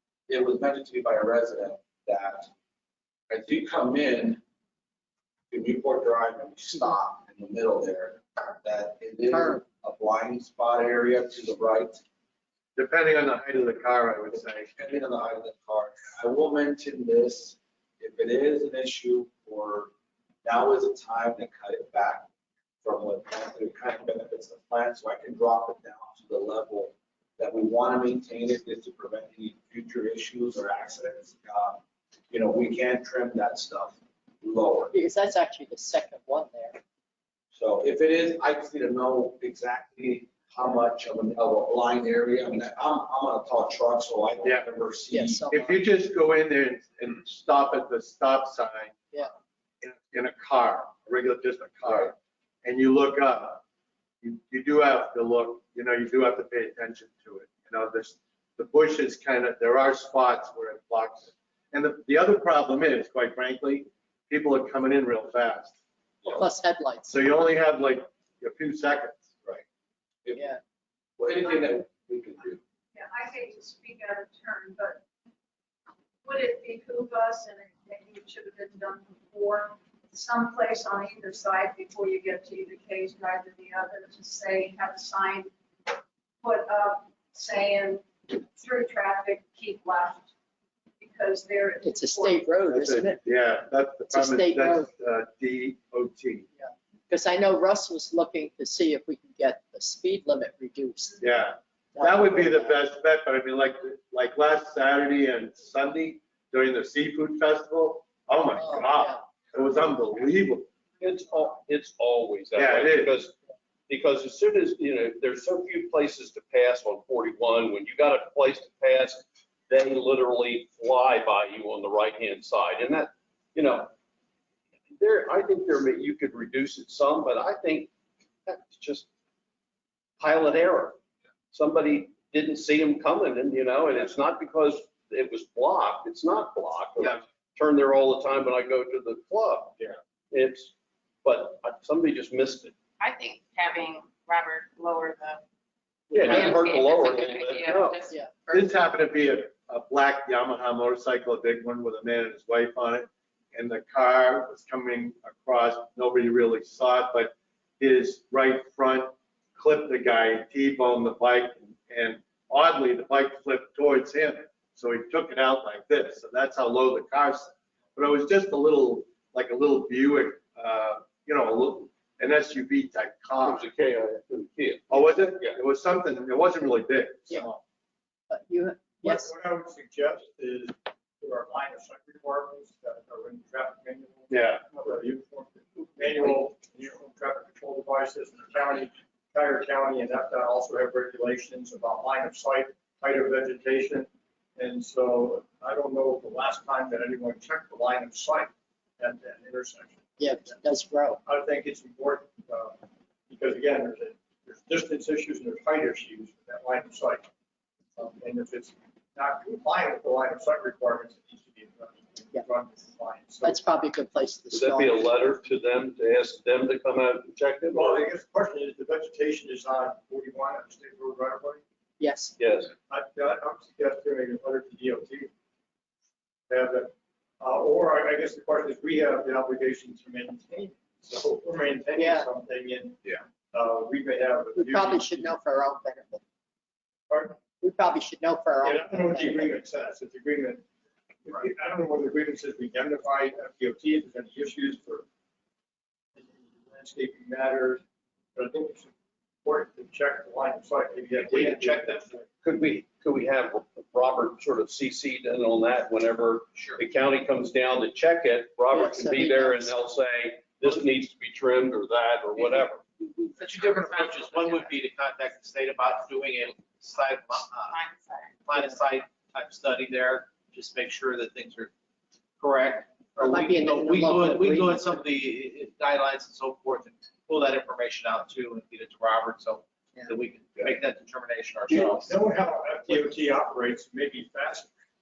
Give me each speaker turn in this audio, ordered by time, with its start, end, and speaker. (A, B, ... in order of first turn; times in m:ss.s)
0:00.3-0:02.5 A
0:03.3-0:04.4 A
0:05.5-0:12.0 A
0:09.3-0:09.6 B
0:12.8-0:14.7 C
0:14.7-0:19.9 A
0:20.4-0:22.3 A
0:22.8-0:34.9 A
0:34.9-0:36.8 B
0:37.5-0:45.4 A
0:45.1-0:45.8 B
0:45.5-0:49.0 C
0:49.8-0:53.6 C
0:54.2-1:05.8 C
1:06.3-1:07.2 B
1:07.1-1:09.3 C
1:10.2-1:10.5 A
1:11.2-1:12.6 A
1:12.9-1:15.0 D
1:16.2-1:25.5 D
1:26.4-1:30.3 D
1:31.0-1:32.5 D
1:31.8-1:33.2 B
1:32.6-1:36.4 C
1:34.1-1:34.9 B
1:36.6-1:41.2 B
1:41.2-1:50.7 C
1:41.9-1:42.8 B
1:48.5-1:49.2 B
1:51.0-1:53.3 E
1:52.5-1:53.1 C
1:53.9-2:03.9 E
2:04.9-2:07.9 E
2:08.5-2:09.1 E
2:10.2-2:11.0 E
2:11.5-2:20.7 E
2:21.2-2:22.7 E
2:23.0-2:25.4 F
2:26.1-2:28.0 E
2:26.2-2:28.8 F
2:26.3-2:26.5 C
2:28.5-2:53.7 C
2:53.4-2:55.6 E
2:54.9-2:57.6 C
2:58.3-2:59.3 B
2:59.0-3:20.5 G
3:04.3-3:04.6 C
3:20.2-3:21.2 B
3:21.2-3:27.3 G
3:28.0-3:33.6 G
3:33.4-3:35.1 B
3:34.5-3:38.0 E
3:37.7-3:41.6 G
3:42.0-3:42.4 B
3:42.4-3:42.7 E
3:42.9-3:45.3 G
3:46.5-3:55.3 G
3:51.9-3:52.3 B
3:54.5-3:56.2 B
3:57.1-3:57.4 G
3:57.5-3:59.6 B
3:58.6-4:00.6 G
4:01.2-4:05.0 G
4:06.2-4:07.8 G
4:08.3-4:08.9 G
4:09.4-4:12.2 G
4:11.2-4:12.2 H
4:12.4-4:22.8 E
4:16.5-4:16.8 H
4:18.7-4:19.7 B
4:22.4-4:27.8 H
4:23.7-4:24.5 F
4:27.7-4:28.4 F
4:28.4-4:31.7 H
4:32.4-4:42.2 H
4:33.2-4:35.0 B
4:41.7-4:44.8 G